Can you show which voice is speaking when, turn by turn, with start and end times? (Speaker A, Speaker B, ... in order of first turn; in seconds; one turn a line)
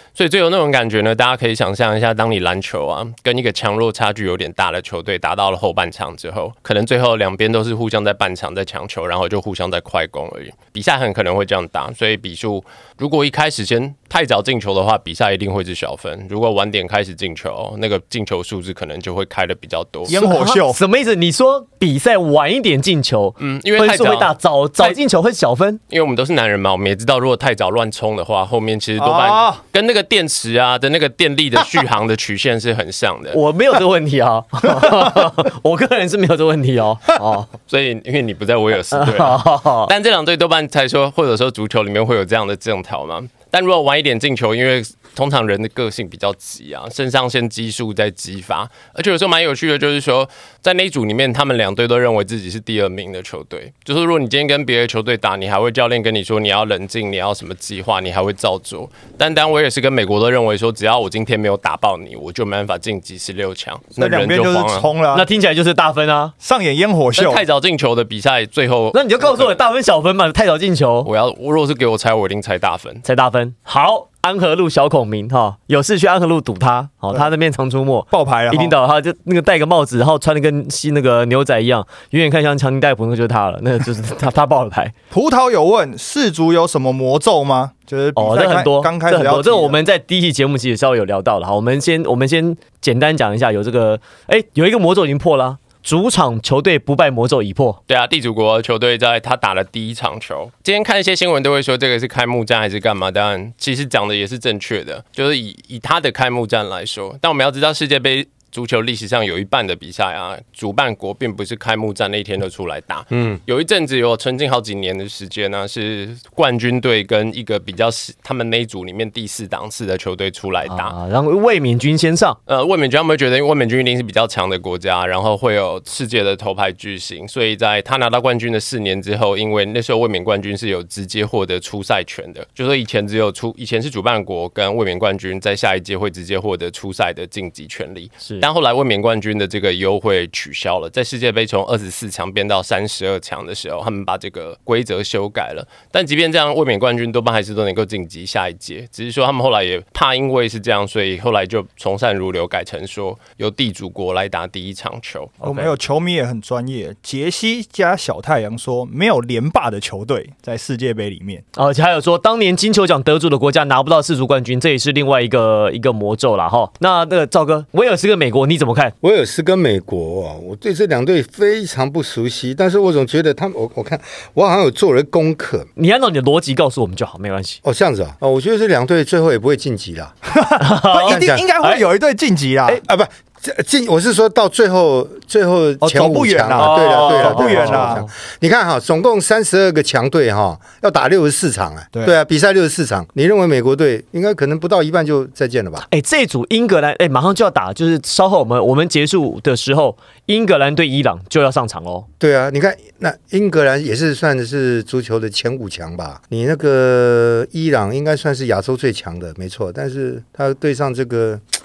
Speaker A: 0.2-20.2
Speaker B: 20.1-20.8
Speaker C: 20.1-25.8
Speaker A: 23.4-24.3
Speaker A: 25.9-33.4
Speaker B: 29.0-29.6
Speaker C: 33.3-37.5
Speaker A: 37.7-64.9
Speaker C: 38.9-39.9
Speaker B: 64.0-65.3
Speaker C: 65.1-66.3
Speaker B: 66.4-67.4
Speaker A: 67.2-69.6
Speaker C: 68.9-71.1
Speaker A: 71.0-73.0
Speaker C: 73.0-84.9
Speaker B: 78.1-78.8
Speaker B: 85.1-89.8
Speaker C: 88.2-97.8
Speaker A: 97.9-121.0
Speaker D: 113.1-113.4
Speaker C: 120.7-122.4
Speaker A: 122.5-155.3
Speaker C: 155.4-155.8
Speaker B: 155.4-161.4
Speaker C: 161.6-168.9
Speaker D: 169.0-175.7
Speaker C: 175.8-177.6
Speaker D: 177.6-180.2
Speaker B: 180.3-182.8
Speaker C: 180.6-181.8
Speaker D: 181.1-181.5
Speaker D: 182.8-195.9
Speaker B: 185.8-188.0
Speaker C: 186.6-188.1
Speaker C: 195.9-202.1
Speaker D: 202.2-211.4